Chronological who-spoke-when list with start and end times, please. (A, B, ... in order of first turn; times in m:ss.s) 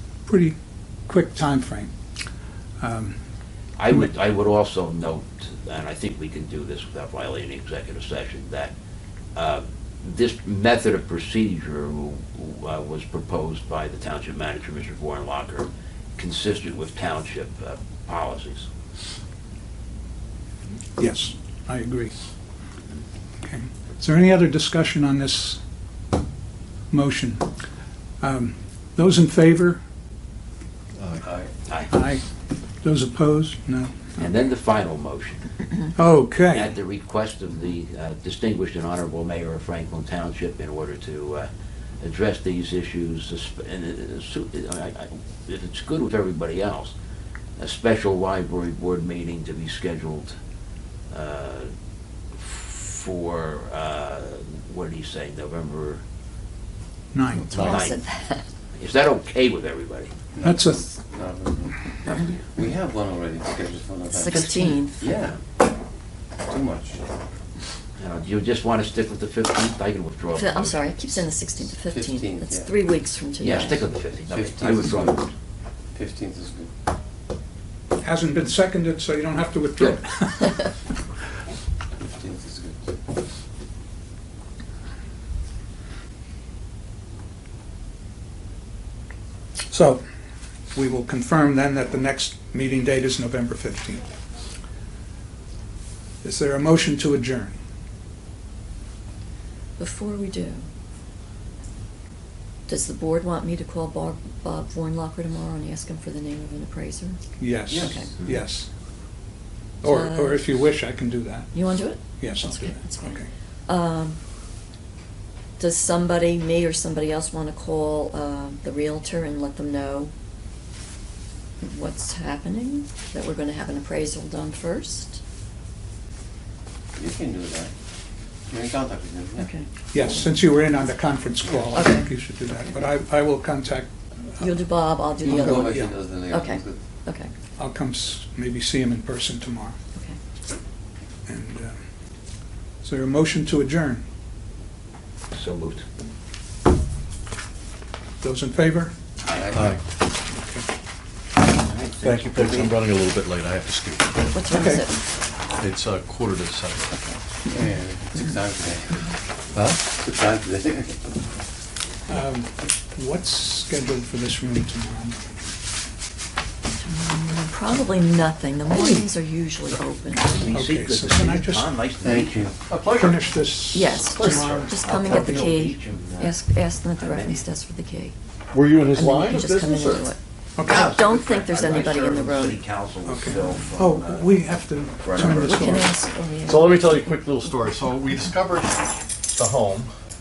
0:00.2-0:00.6 A
0:01.1-0:01.9 A
0:02.8-0:03.2 A
0:03.8-0:08.7 B
0:09.4-0:18.7 B
0:21.0-0:22.1 A
0:23.4-0:25.6 A
0:26.9-0:27.5 A
0:28.2-0:29.8 A
0:31.0-0:31.3 C
0:31.2-0:31.5 D
0:31.9-0:32.3 A
0:32.8-0:34.3 A
0:34.2-0:35.5 B
0:36.0-0:36.7 A
0:36.5-0:47.0 B
0:47.6-0:50.4 B
0:51.1-0:51.7 B
0:52.4-0:56.0 B
0:57.1-0:57.8 A
0:57.3-0:58.5 E
0:57.6-0:58.0 B
0:58.8-1:00.1 B
1:00.3-1:05.4 D
1:00.4-1:00.8 A
1:02.0-1:02.5 B
1:04.1-1:05.0 E
1:04.3-1:04.9 B
1:06.5-1:07.0 D
1:08.0-1:11.2 B
1:10.3-1:13.8 E
1:11.8-1:12.7 D
1:13.4-1:15.3 B
1:14.2-1:15.3 D
1:15.9-1:16.7 D
1:18.0-1:20.7 A
1:22.0-1:22.9 D
1:29.7-1:30.0 A
1:30.7-1:34.0 A
1:36.2-1:37.6 A
1:39.8-1:40.7 E
1:42.7-1:47.2 E
1:47.4-1:48.7 A
1:47.7-1:48.1 D
1:47.8-1:48.1 E
1:49.8-1:51.6 A
1:49.8-1:50.4 E
1:51.5-1:54.2 E
1:52.2-1:53.3 A
1:55.6-2:00.1 E
2:01.6-2:05.2 E
2:07.0-2:07.7 D
2:08.5-2:09.5 D
2:09.4-2:10.4 E
2:09.9-2:14.5 A
2:11.7-2:12.1 E
2:14.4-2:17.3 E
2:15.2-2:16.8 D
2:15.2-2:15.9 A
2:17.6-2:19.8 A
2:21.3-2:21.8 A
2:22.8-2:24.0 A
2:25.3-2:25.9 B
2:28.2-2:29.0 A
2:29.3-2:29.8 D
2:29.5-2:29.8 C
2:30.4-2:30.6 A
2:31.4-2:32.7 B
2:32.0-2:34.3 C
2:34.3-2:34.9 E
2:34.5-2:34.8 A
2:35.6-2:36.9 C
2:36.9-2:37.2 E
2:37.5-2:39.1 D
2:39.5-2:39.8 C
2:39.8-2:41.1 D
2:42.1-2:45.4 A
2:46.8-2:50.5 E
2:48.7-2:49.0 A
2:50.2-2:52.5 B
2:50.5-2:51.7 A
2:52.0-2:52.6 D
2:52.6-2:53.4 C
2:53.0-2:55.5 A
2:53.7-2:58.2 E
2:54.2-2:54.6 C
2:54.8-2:56.4 B
2:57.0-2:57.4 B
2:58.5-3:00.1 C
2:58.9-3:02.6 E
3:00.6-3:00.9 A
3:00.7-3:04.3 B
3:03.1-3:05.9 A
3:05.0-3:05.9 C
3:05.2-3:07.5 E
3:06.4-3:08.8 C
3:09.3-3:09.9 C